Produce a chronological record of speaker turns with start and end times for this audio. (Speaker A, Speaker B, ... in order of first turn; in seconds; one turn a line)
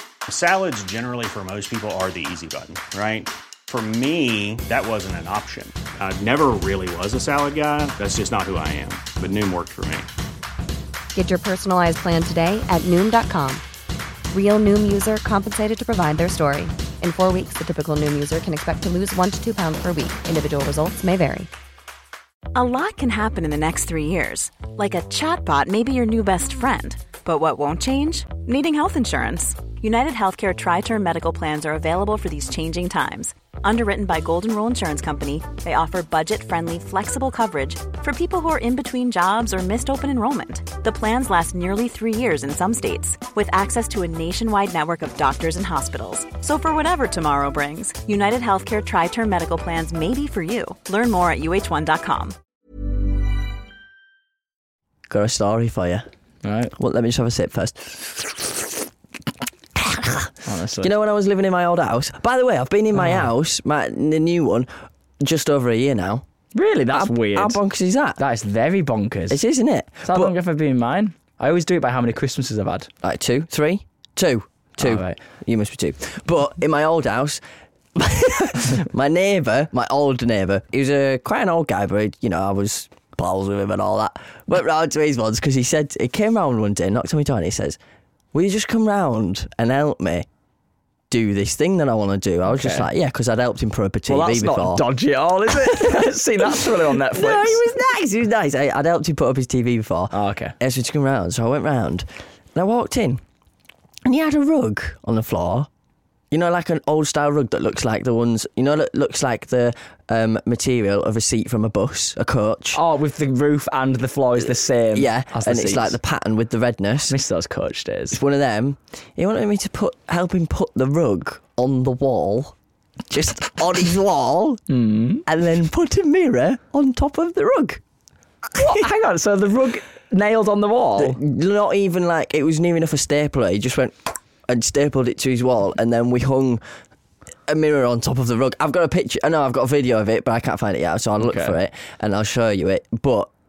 Speaker A: 0.3-10.1
Speaker B: 11.1-13.6
Speaker B: 14.3-21.5
Speaker C: 22.5-52.3
Speaker D: 55.1-56.0
Speaker E: 56.4-56.7
Speaker D: 56.8-58.6
Speaker D: 59.8-60.3
Speaker E: 60.4-60.9
Speaker D: 60.8-64.7
Speaker E: 63.0-63.2
Speaker D: 65.2-66.2
Speaker E: 66.5-67.6
Speaker D: 66.9-68.2
Speaker E: 68.2-69.4
Speaker D: 69.3-70.3
Speaker E: 70.0-72.9
Speaker D: 73.0-77.4
Speaker E: 74.8-75.2
Speaker D: 77.9-87.8
Speaker D: 88.3-90.3
Speaker D: 91.1-94.8
Speaker E: 92.5-92.9
Speaker E: 94.1-97.6
Speaker D: 95.6-103.2
Speaker E: 100.1-100.5
Speaker D: 104.0-105.7
Speaker D: 106.3-112.8
Speaker E: 112.7-116.0
Speaker D: 114.9-117.1
Speaker E: 117.1-118.2
Speaker D: 118.1-122.5
Speaker D: 123.1-124.6
Speaker E: 124.7-125.2
Speaker D: 125.2-127.8
Speaker E: 128.5-131.2
Speaker D: 128.6-128.8
Speaker D: 131.0-136.6
Speaker D: 137.5-143.3
Speaker E: 141.2-141.5